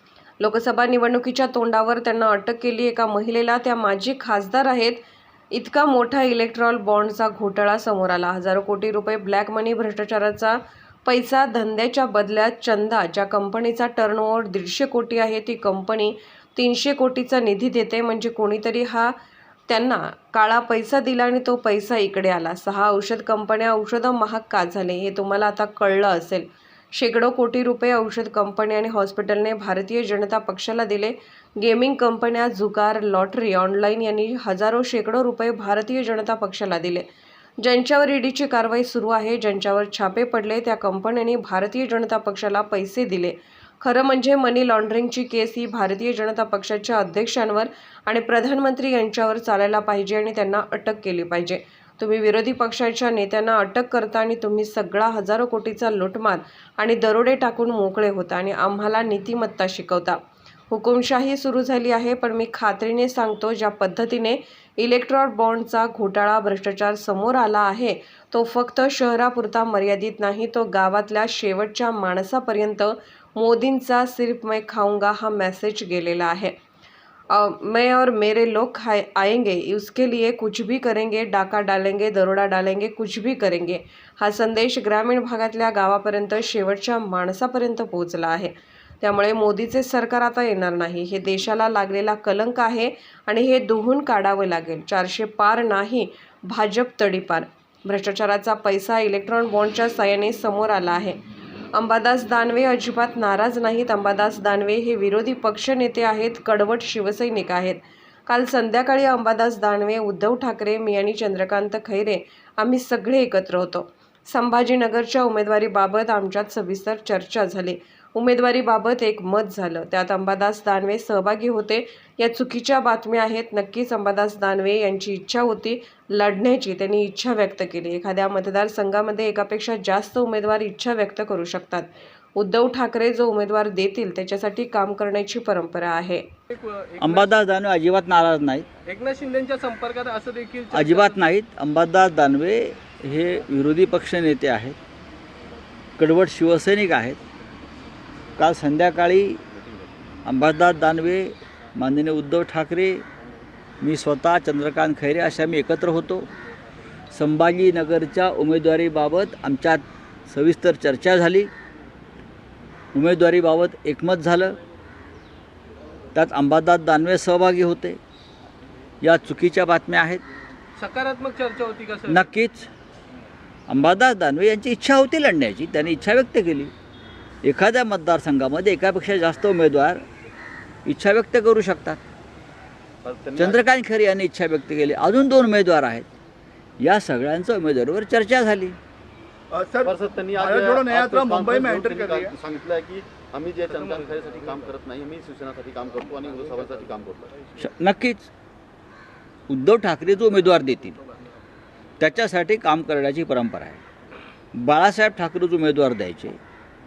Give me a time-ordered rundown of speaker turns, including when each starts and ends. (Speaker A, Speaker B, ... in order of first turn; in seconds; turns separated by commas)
Speaker A: 0.4-19.1, Speaker A: 19.7-37.1, Speaker A: 37.6-60.2, Speaker A: 60.7-76.5, Speaker A: 77.3-101.2, Speaker A: 101.7-136.3, Speaker B: 136.5-137.3, Speaker C: 137.0-138.7, Speaker B: 138.9-141.3, Speaker C: 140.7-144.8, Speaker C: 146.0-147.2, Speaker C: 148.4-149.4, Speaker C: 150.3-153.0, Speaker C: 153.8-156.3, Speaker C: 157.1-161.5, Speaker C: 162.9-164.6, Speaker C: 166.2-168.0, Speaker C: 169.0-170.2, Speaker B: 170.8-172.2, Speaker C: 172.1-172.7, Speaker C: 173.7-176.7, Speaker C: 177.4-180.0, Speaker C: 180.8-182.0, Speaker D: 183.0-183.6, Speaker C: 183.4-186.1, Speaker C: 186.8-188.8, Speaker E: 189.5-192.4, Speaker D: 189.8-197.3, Speaker B: 193.7-194.8, Speaker B: 196.2-197.0, Speaker C: 197.6-198.3, Speaker C: 199.5-201.0, Speaker C: 202.0-203.8, Speaker C: 204.6-206.4